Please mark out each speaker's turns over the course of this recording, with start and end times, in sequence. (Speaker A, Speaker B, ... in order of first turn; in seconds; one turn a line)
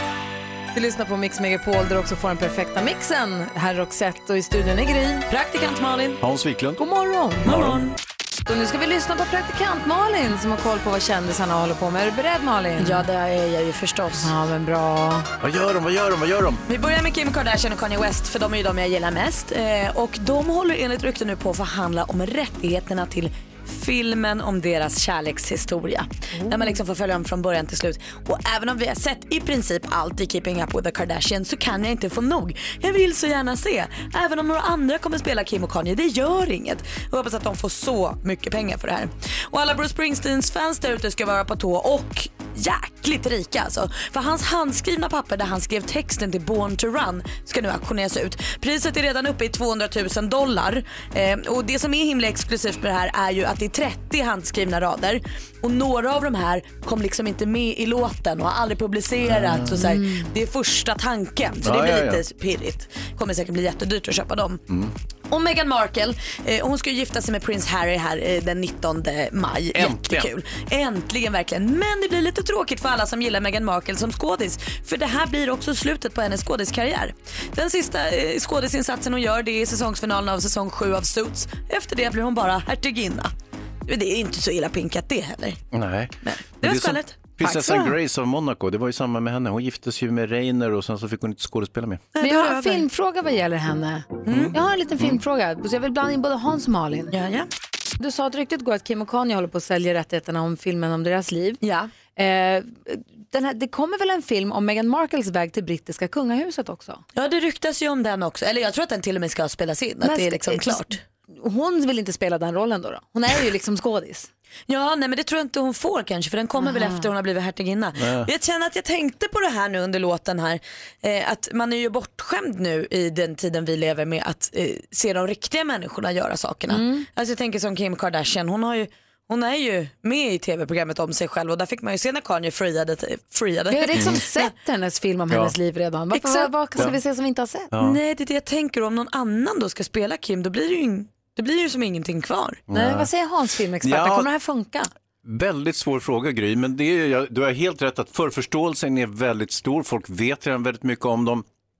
Speaker A: 0.7-5.2
Speaker B: 5.3-6.2
Speaker C: 6.2-6.8
Speaker A: 6.8-7.5
Speaker C: 7.4-7.8
Speaker B: 7.4-7.9
Speaker A: 8.4-13.0
Speaker B: 12.8-14.3
Speaker A: 14.2-15.3
Speaker C: 15.4-16.6
Speaker B: 16.7-64.6
Speaker C: 59.2-59.8
Speaker A: 59.7-60.3
Speaker C: 61.6-62.2
Speaker B: 65.3-83.3
Speaker C: 69.7-70.3
Speaker B: 83.8-85.6
Speaker C: 85.7-92.1
Speaker B: 86.2-87.3
Speaker A: 87.4-87.9
Speaker B: 92.1-92.8
Speaker A: 92.2-97.1
Speaker B: 94.2-94.5
Speaker C: 94.3-95.2
Speaker B: 97.1-97.5
Speaker A: 98.0-101.6
Speaker B: 101.6-101.9
Speaker A: 102.1-107.0
Speaker B: 107.1-110.9
Speaker A: 110.0-114.3
Speaker B: 114.7-134.3
Speaker A: 116.6-117.0
Speaker C: 118.0-118.3
Speaker A: 126.7-127.0
Speaker A: 133.7-137.7
Speaker C: 135.3-135.5
Speaker B: 136.1-136.5
Speaker C: 137.7-138.0
Speaker B: 137.8-142.6
Speaker C: 142.7-143.1
Speaker A: 142.7-144.9
Speaker C: 143.8-144.3
Speaker C: 145.2-151.4